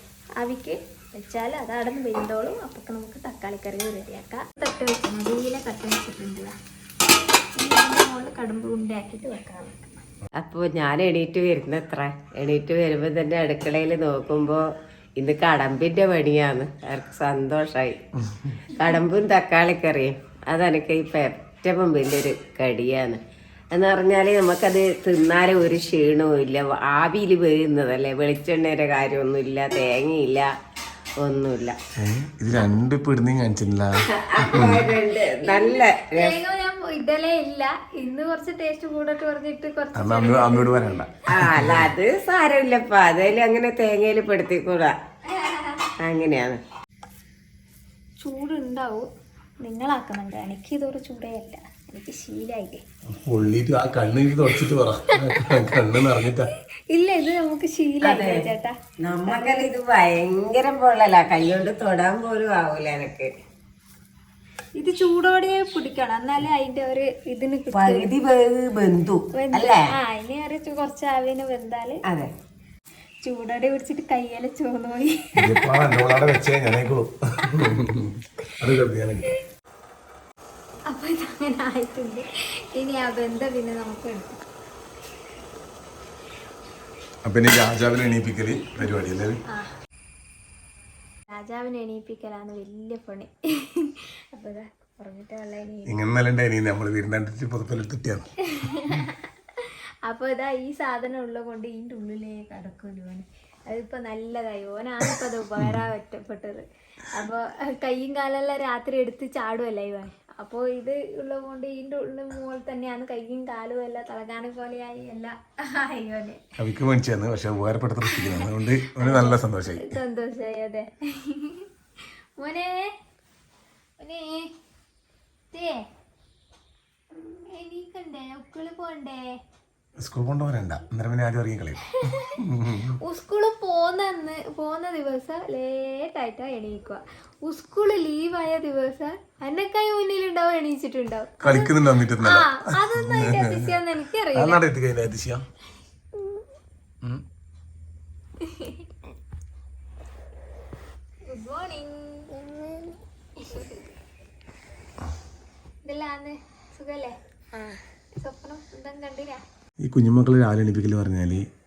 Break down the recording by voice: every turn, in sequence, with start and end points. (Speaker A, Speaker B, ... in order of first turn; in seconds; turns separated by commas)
Speaker A: 0.4-6.5, Speaker A: 7.6-10.0, Speaker B: 10.4-14.6, Speaker B: 15.2-18.0, Speaker C: 18.2-18.6, Speaker B: 18.7-23.2, Speaker B: 23.7-30.5, Speaker B: 31.2-31.8, Speaker C: 32.0-34.9, Speaker B: 34.1-36.4, Speaker A: 35.4-41.0, Speaker C: 40.0-41.9, Speaker B: 41.3-45.0, Speaker A: 45.3-45.9, Speaker B: 46.0-46.6, Speaker A: 48.2-49.1, Speaker A: 49.6-52.8, Speaker C: 53.1-56.5, Speaker A: 55.1-56.0, Speaker A: 56.9-58.7, Speaker B: 58.0-58.5, Speaker B: 59.0-63.3, Speaker A: 59.2-59.7, Speaker A: 64.8-68.1, Speaker B: 67.7-69.8, Speaker A: 69.3-72.0, Speaker A: 73.2-75.8, Speaker C: 75.4-79.3, Speaker A: 80.9-84.4, Speaker C: 87.3-89.4, Speaker A: 91.3-96.0, Speaker C: 95.9-98.3, Speaker A: 98.5-116.4, Speaker C: 116.6-120.0, Speaker A: 118.0-121.7, Speaker A: 122.4-122.9, Speaker A: 124.0-124.5, Speaker A: 125.5-125.9, Speaker A: 127.5-129.3, Speaker C: 130.0-133.0, Speaker A: 132.0-132.4, Speaker A: 132.9-144.6, Speaker C: 141.4-143.8, Speaker C: 144.3-145.5, Speaker A: 148.4-148.9, Speaker A: 151.3-153.8, Speaker A: 155.8-159.4, Speaker C: 159.8-161.5